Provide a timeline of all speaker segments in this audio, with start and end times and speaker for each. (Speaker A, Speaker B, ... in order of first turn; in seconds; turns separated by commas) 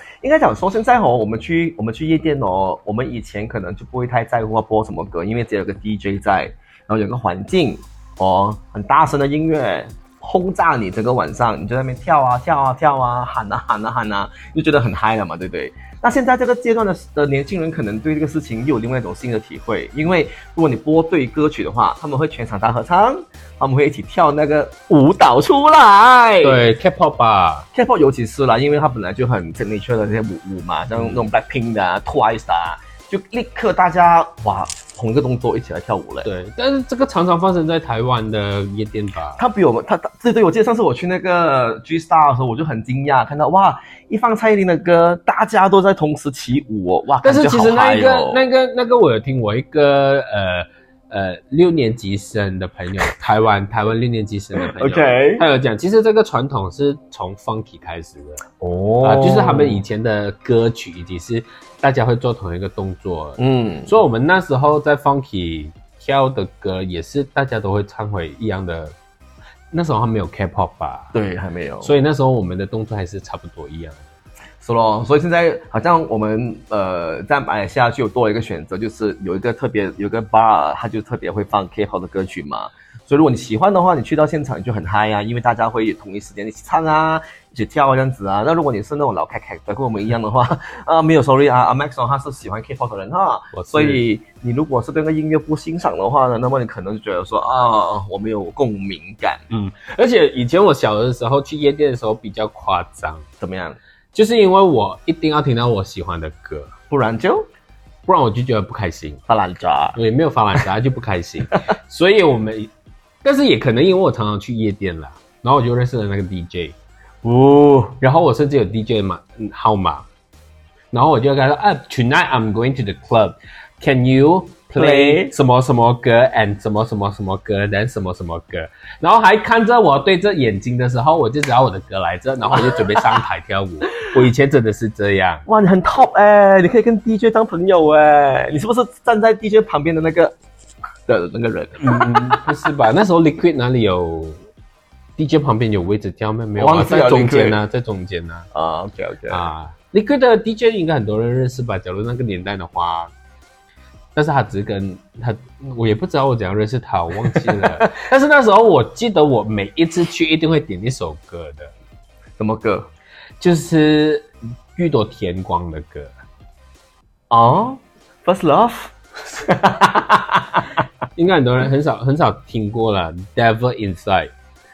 Speaker A: 0.2-26.7, Speaker B: 26.4-27.7, Speaker A: 27.7-36.3, Speaker B: 31.0-31.2, Speaker B: 36.2-39.4, Speaker A: 39.4-48.5, Speaker B: 47.2-58.4, Speaker A: 54.6-55.5, Speaker A: 58.6-59.9, Speaker B: 59.0-69.0, Speaker A: 63.4-63.9, Speaker B: 69.7-71.1, Speaker A: 71.1-71.9, Speaker B: 71.8-74.0, Speaker A: 74.6-99.5, Speaker B: 93.5-94.0, Speaker B: 99.5-103.3, Speaker A: 103.4-103.8, Speaker B: 104.1-106.7, Speaker A: 106.9-107.5, Speaker B: 108.1-109.2, Speaker A: 109.3-110.0, Speaker B: 110.0-112.7, Speaker B: 113.2-116.8, Speaker A: 117.2-118.0, Speaker B: 118.0-120.0, Speaker B: 120.9-135.4, Speaker A: 124.8-125.3, Speaker A: 132.5-133.2, Speaker A: 135.5-140.3, Speaker A: 141.1-142.4, Speaker B: 141.8-144.4, Speaker B: 145.2-148.5, Speaker A: 146.6-147.6, Speaker A: 148.5-149.4, Speaker B: 149.3-153.1, Speaker B: 154.2-161.7, Speaker A: 157.2-157.9, Speaker A: 162.4-162.9, Speaker B: 163.4-166.1, Speaker A: 167.3-170.8, Speaker B: 171.2-174.3